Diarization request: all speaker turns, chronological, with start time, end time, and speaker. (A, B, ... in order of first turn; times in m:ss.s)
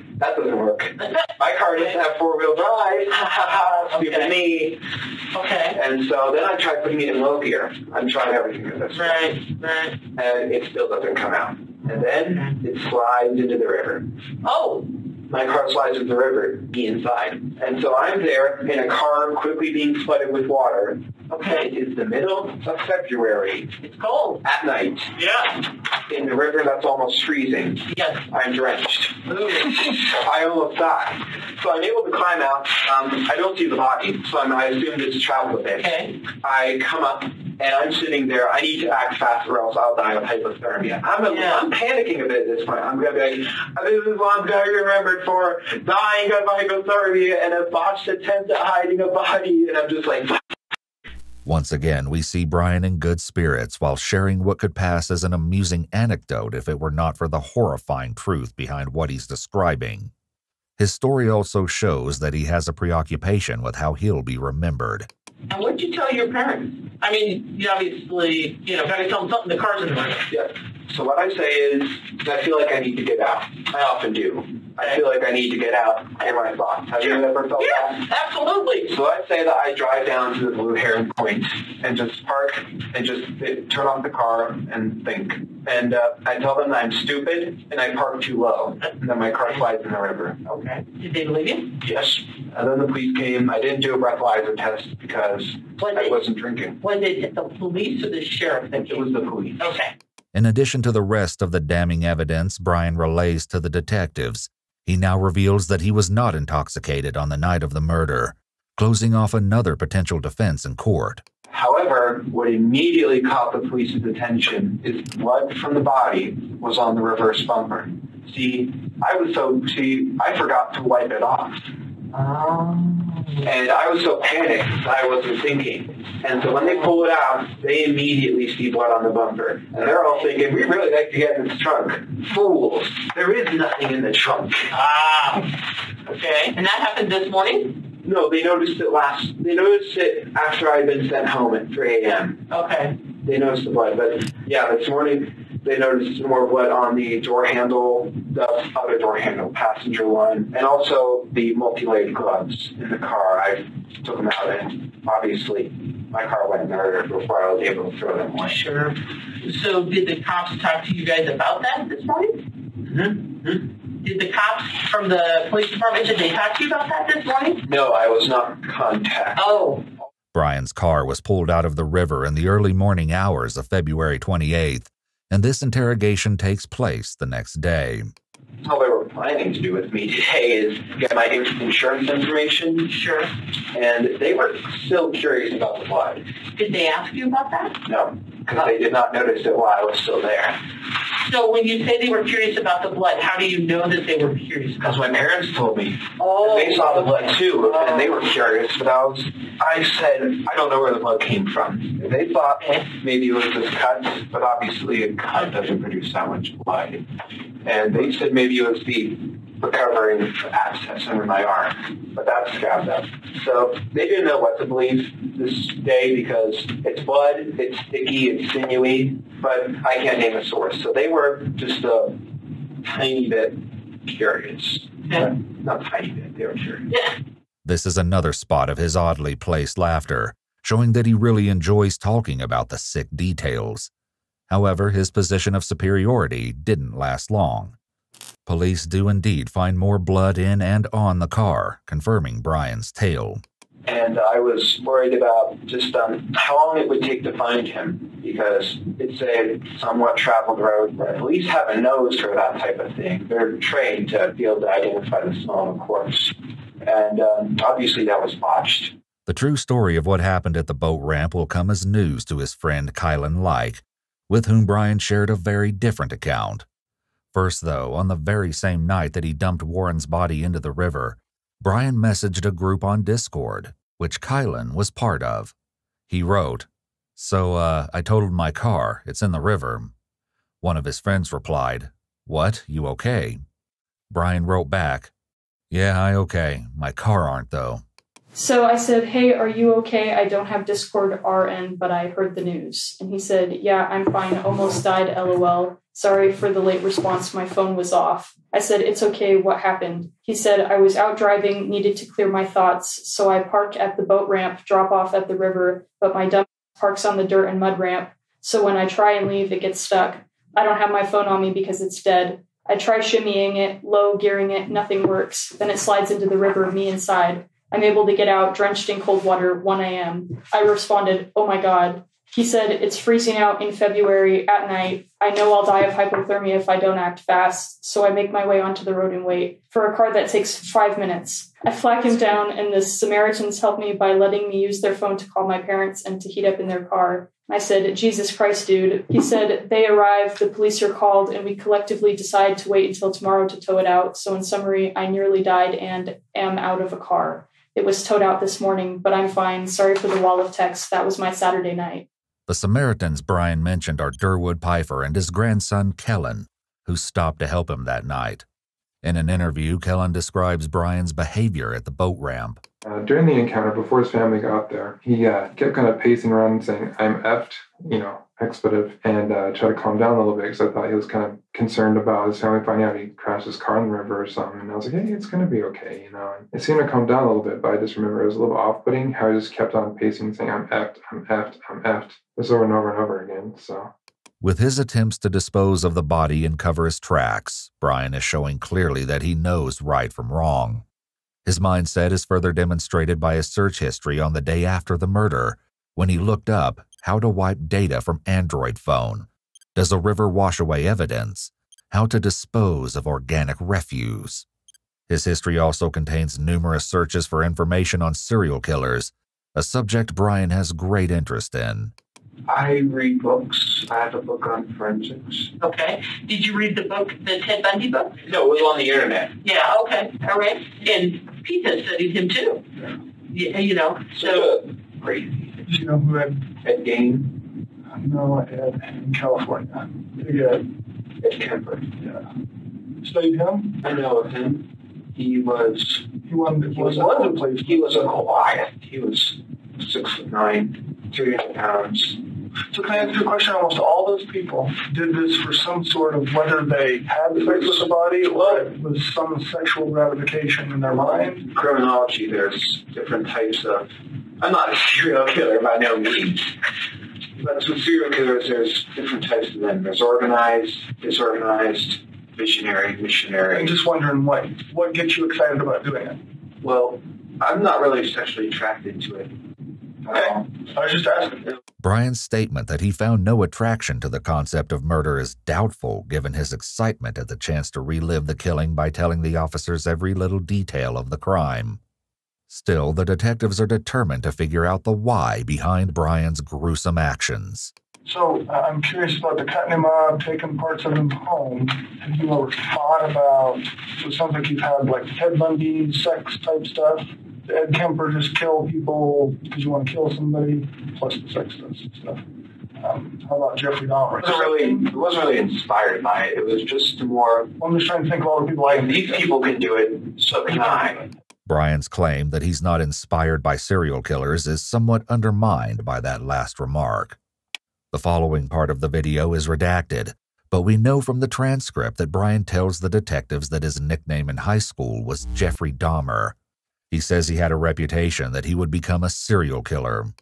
0:00.2-0:04.8 A
0:01.0-0:02.0 B
0:03.1-0:04.4 B
0:05.3-0:05.8 B
0:05.7-0:09.5 A
0:08.9-0:10.0 B
0:10.1-0:14.0 A
0:11.8-0:12.6 B
0:14.4-0:14.9 B
0:15.3-0:23.7 A
0:21.3-0:21.7 B
0:23.8-0:24.4 B
0:24.4-0:25.1 A
0:25.1-0:25.6 B
0:26.1-0:50.4 A
0:27.9-0:28.2 B
0:29.2-0:29.7 B
0:35.8-0:36.2 B
0:41.2-0:41.7 B
0:51.4-1:00.1 C
1:00.8-1:05.1 C
1:05.5-1:10.2 B
1:10.3-1:18.0 A
1:17.0-1:18.9 B
1:18.9-1:30.5 A
1:28.8-1:29.7 B
1:30.5-1:31.8 B
1:31.8-1:36.8 A
1:35.8-1:36.2 B
1:36.8-1:39.9 B
1:38.8-1:39.6 A
1:40.3-1:51.2 C
1:51.5-2:01.6 A
2:02.2-2:03.4 B
2:02.2-2:14.7 A
2:06.4-2:06.9 B
2:09.8-2:10.3 B
2:14.7-2:15.5 B
2:16.0-2:17.8 B
2:18.0-2:22.4 A
2:22.5-2:23.0 B
2:23.1-2:38.7 A
2:38.4-2:42.4 B
2:42.8-2:43.6 A
2:43.3-2:47.6 B
2:47.6-2:49.9 A
2:49.4-2:49.9 B
2:50.3-2:58.1 C
2:58.6-3:02.9 A
3:02.8-3:03.3 B
3:03.7-3:06.2 A
3:06.5-3:07.8 B
3:07.8-3:10.6 A
3:08.5-3:08.8 B
3:11.2-3:15.0 B
3:14.8-3:27.0 A
3:16.2-3:18.3 B
3:22.6-3:22.9 B
3:27.6-3:42.2 A
3:42.8-3:46.8 A
3:45.0-3:45.3 B
3:46.9-3:47.2 B
3:47.6-3:53.9 C
3:54.5-3:57.8 C
3:58.4-4:03.4 C
4:03.8-4:18.9 A
4:19.2-4:26.6 C
4:27.3-4:35.5 C
4:36.1-4:39.9 C
4:40.6-4:43.4 C
4:44.1-4:45.1 C
4:45.7-4:47.8 C
4:48.3-5:52.0 D
5:52.5-5:58.4 C
5:59.0-6:02.6 C
6:02.8-6:23.9 E
6:24.4-6:30.8 C
6:31.4-6:44.4 C
6:45.1-6:51.9 C
6:52.4-6:55.5 A
6:55.6-6:58.3 B
6:58.2-6:59.3 A
6:59.4-7:02.6 B
7:03.3-7:04.5 B
7:04.1-7:05.6 A
7:05.6-7:06.5 F
7:06.6-7:07.3 A
7:07.9-7:10.6 F
7:11.2-7:12.0 A
7:12.0-7:12.2 F
7:13.0-7:13.8 F
7:13.8-7:16.1 A
7:16.2-7:18.2 F
7:16.6-7:22.2 A
7:22.7-7:31.5 F
7:27.3-7:28.7 A
7:30.8-7:36.5 A
7:37.4-7:43.8 A
7:43.5-7:46.2 F
7:46.6-7:49.3 A
7:50.0-7:50.6 A
7:50.0-7:51.5 F
7:51.8-8:01.8 C
8:02.5-8:07.7 C
8:08.0-8:22.2 F
8:22.8-8:24.9 F
8:24.1-8:27.5 A
8:27.6-8:29.4 F
8:28.6-8:31.1 A
8:30.5-8:31.0 F
8:31.4-8:37.2 C
8:37.9-8:46.3 C
8:46.9-8:50.1 C